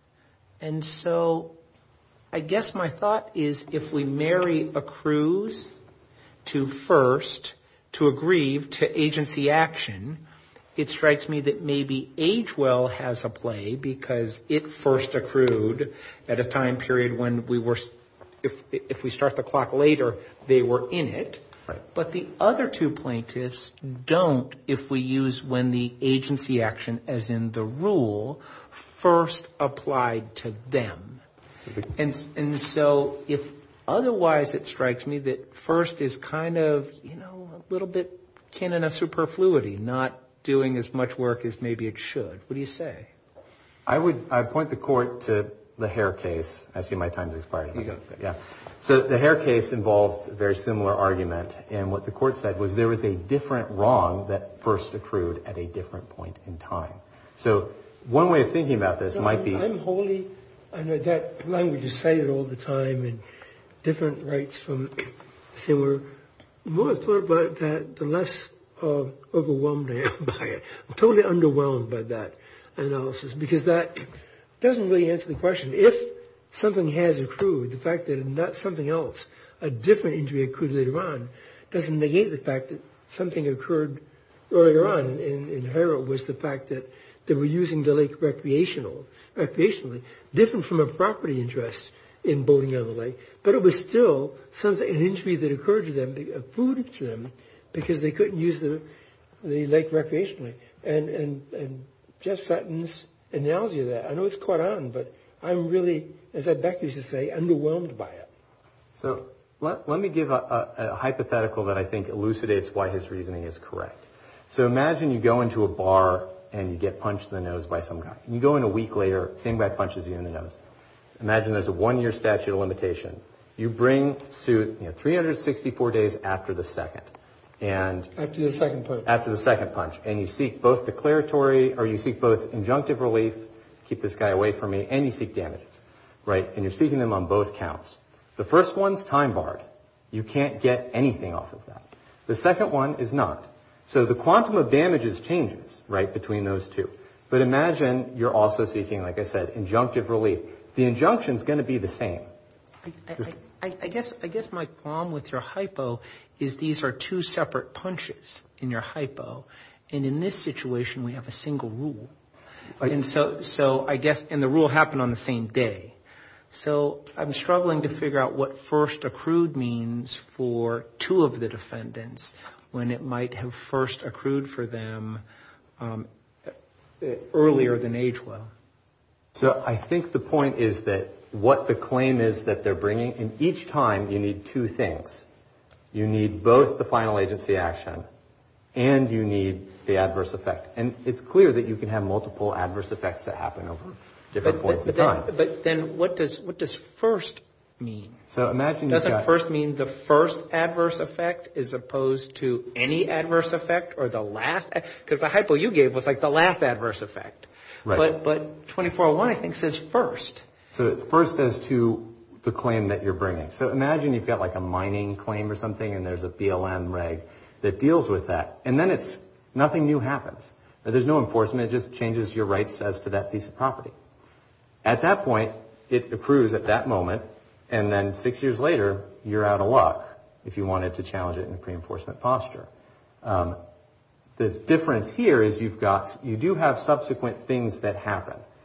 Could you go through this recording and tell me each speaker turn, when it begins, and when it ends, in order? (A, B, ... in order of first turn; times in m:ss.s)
0:00.6-0:01.6 A
0:02.3-0:05.7 A
0:06.4-0:10.2 A
0:10.8-0:31.2 A
0:31.9-0:43.1 A
0:43.8-0:59.6 B
0:59.1-1:03.2 C
1:03.8-1:06.1 C
1:06.6-1:38.8 C
1:39.4-1:48.3 C
1:48.9-2:00.6 B
2:01.2-2:08.1 B
2:08.2-2:09.1 C
2:09.0-2:32.3 B
2:32.8-2:42.1 A
2:42.8-2:46.0 A
2:46.5-2:55.2 A
2:55.8-2:58.5 A
2:59.3-3:05.2 B
3:05.9-3:08.0 B
3:08.7-3:15.3 B
3:14.4-3:18.2 A
3:18.3-3:19.3 B
3:18.9-3:30.4 A
3:30.7-3:43.9 B
3:44.8-3:52.7 B
3:53.2-3:53.6 B
3:54.4-3:58.4 B